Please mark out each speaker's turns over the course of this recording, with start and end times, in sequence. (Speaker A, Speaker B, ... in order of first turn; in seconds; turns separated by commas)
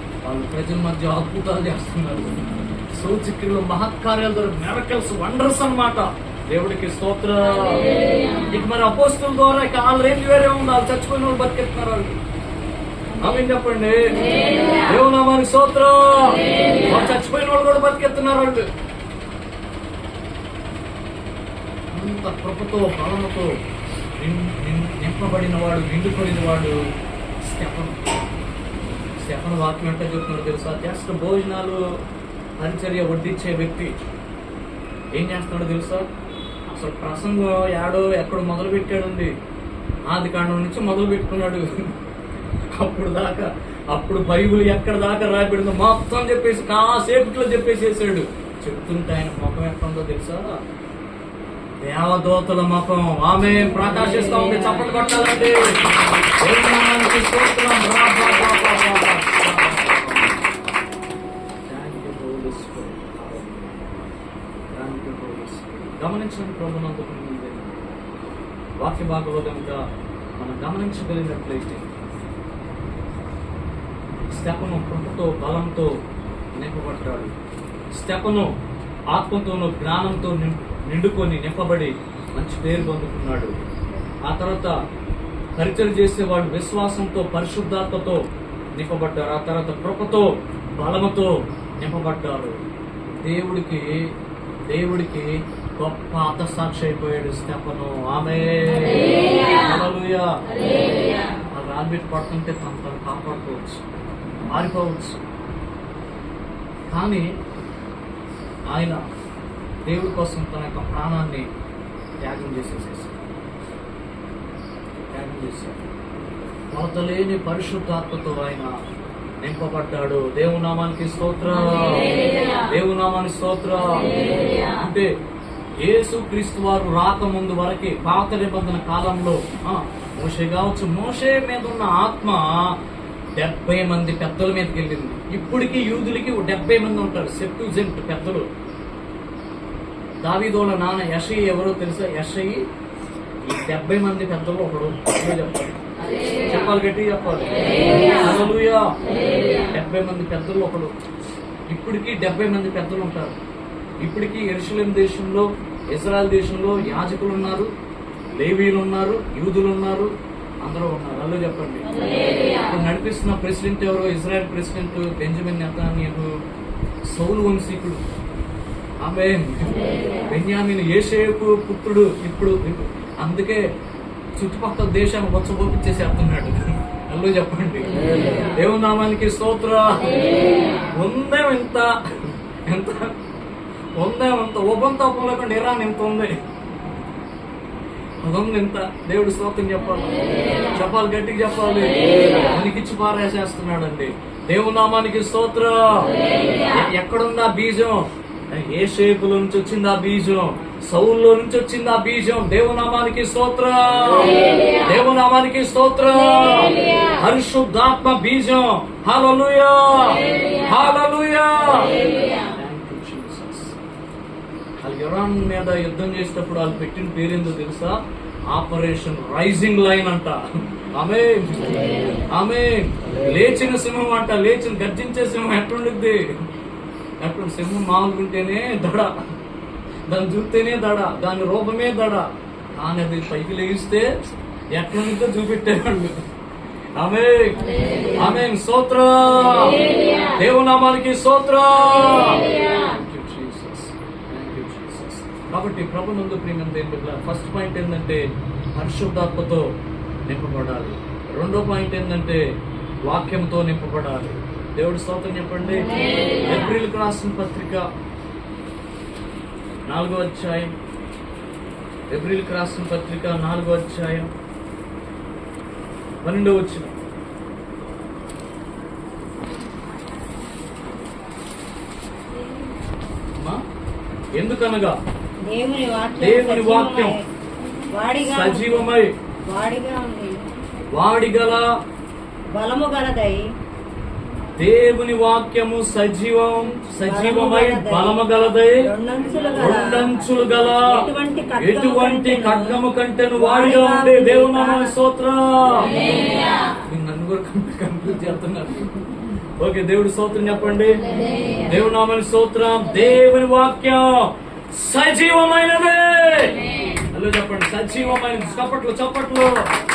Speaker A: 0.2-7.8, Speaker A: 8.4-12.2, Speaker A: 13.2-18.7, Speaker A: 21.9-23.5, Speaker A: 24.1-26.8, Speaker A: 27.4-28.2, Speaker A: 29.2-31.8, Speaker A: 32.6-33.9, Speaker A: 35.1-36.1, Speaker A: 36.7-39.3, Speaker A: 40.1-41.9, Speaker A: 42.7-50.6, Speaker A: 51.8-60.4, Speaker A: 61.7-63.8, Speaker A: 64.7-67.7, Speaker A: 68.8-69.8, Speaker A: 70.4-71.9, Speaker A: 74.3-75.9, Speaker A: 76.5-77.3, Speaker A: 77.9-78.5, Speaker A: 79.1-83.5, Speaker A: 84.2-84.7, Speaker A: 85.6-88.2, Speaker A: 88.8-92.5, Speaker A: 93.1-94.1, Speaker A: 94.7-100.3, Speaker A: 101.5-103.8, Speaker A: 104.5-105.2, Speaker A: 106.9-107.3, Speaker A: 108.7-109.0, Speaker A: 109.8-111.5, Speaker A: 112.2-113.2, Speaker A: 115.1-115.8, Speaker A: 116.7-118.7, Speaker A: 119.4-125.1, Speaker A: 125.8-132.7, Speaker A: 133.4-138.4, Speaker A: 140.2-142.6, Speaker A: 143.5-145.8, Speaker A: 146.4-148.8, Speaker A: 149.5-150.9, Speaker A: 151.7-153.3, Speaker A: 154.0-157.7, Speaker A: 158.3-160.1, Speaker A: 160.6-162.0, Speaker A: 162.6-166.3, Speaker A: 167.1-168.0, Speaker A: 169.0-173.6, Speaker A: 174.4-180.3, Speaker A: 180.9-183.1, Speaker A: 184.0-186.3, Speaker A: 188.2-213.7, Speaker A: 214.8-218.0, Speaker A: 218.5-226.2, Speaker A: 227.2-229.2, Speaker A: 230.1-234.1, Speaker A: 234.7-236.2, Speaker A: 236.9-239.8, Speaker A: 240.3-248.2, Speaker A: 248.7-249.7, Speaker A: 250.3-252.4, Speaker A: 253.1-257.8, Speaker A: 259.9-260.7, Speaker A: 262.1-264.3, Speaker A: 266.2-266.9, Speaker A: 274.4-275.0, Speaker B: 275.4-277.1, Speaker A: 276.2-277.1, Speaker B: 277.9-278.8, Speaker A: 278.2-279.1, Speaker B: 279.5-280.4, Speaker A: 280.9-281.6, Speaker B: 282.5-283.4, Speaker A: 284.6-288.9, Speaker B: 287.0-288.2, Speaker B: 288.8-290.1, Speaker A: 289.5-296.0, Speaker B: 290.8-292.8, Speaker B: 293.4-294.9, Speaker A: 296.7-299.0, Speaker A: 299.6-301.0, Speaker A: 301.6-309.7